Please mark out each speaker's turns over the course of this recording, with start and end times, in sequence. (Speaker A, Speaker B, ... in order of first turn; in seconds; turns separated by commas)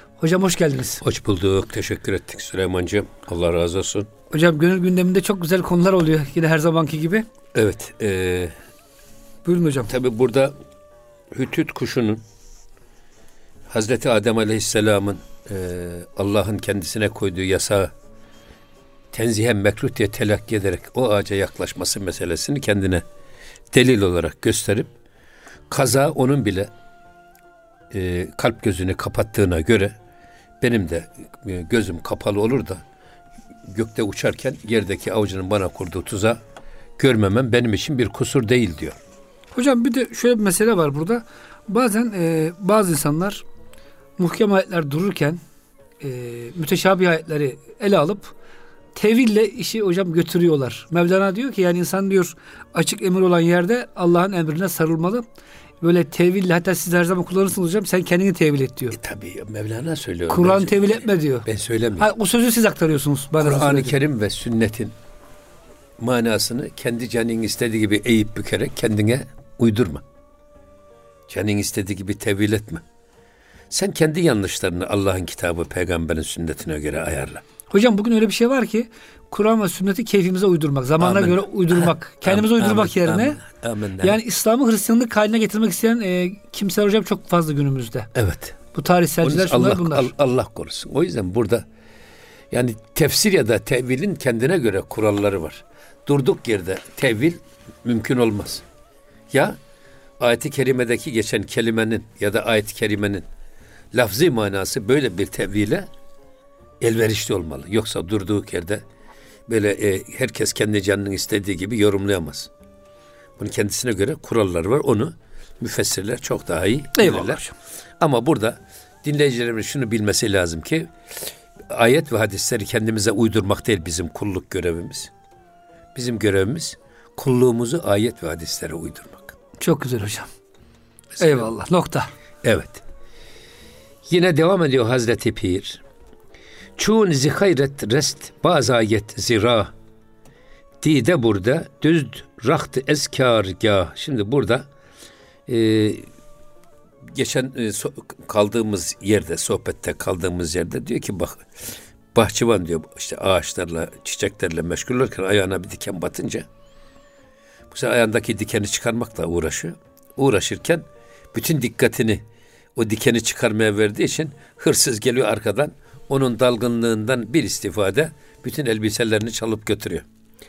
Speaker A: 0.2-1.0, Speaker B: 1.0-4.1, Speaker A: 4.3-7.2, Speaker B: 7.5-8.5, Speaker A: 9.4-9.9, Speaker B: 9.9-10.5, Speaker B: 11.3-12.2, Speaker B: 13.7-17.9, Speaker B: 19.1-23.0, Speaker B: 23.7-24.9, Speaker B: 25.7-26.7, Speaker B: 27.9-29.9, Speaker B: 30.6-32.8, Speaker B: 33.7-36.4, Speaker B: 37.0-39.0, Speaker A: 39.5-43.4, Speaker A: 44.2-45.4, Speaker A: 46.0-48.3, Speaker A: 48.9-55.2, Speaker A: 55.8-59.0, Speaker B: 58.9-62.1, Speaker A: 60.3-61.5, Speaker A: 62.0-64.0, Speaker B: 63.4-64.9, Speaker B: 66.0-70.0, Speaker B: 71.3-72.8, Speaker B: 73.7-77.4, Speaker A: 77.7-83.4, Speaker B: 81.0-84.2, Speaker A: 84.0-88.1, Speaker B: 88.1-88.6, Speaker A: 88.7-90.1, Speaker B: 89.2-91.6, Speaker B: 92.5-98.6, Speaker B: 99.3-99.5, Speaker B: 100.2-103.2, Speaker B: 103.9-105.9, Speaker B: 106.8-108.8, Speaker B: 109.5-112.5, Speaker B: 113.4-117.4, Speaker A: 117.0-117.5, Speaker B: 118.0-120.9, Speaker B: 121.7-125.1, Speaker B: 125.9-129.3, Speaker A: 129.6-130.3, Speaker B: 131.2-131.5, Speaker A: 131.2-132.1, Speaker B: 132.4-132.8, Speaker B: 134.1-135.8, Speaker B: 136.8-139.7, Speaker B: 140.8-144.7, Speaker B: 145.5-146.1, Speaker B: 147.1-151.5, Speaker B: 152.1-156.4, Speaker B: 157.7-162.2, Speaker B: 162.8-170.1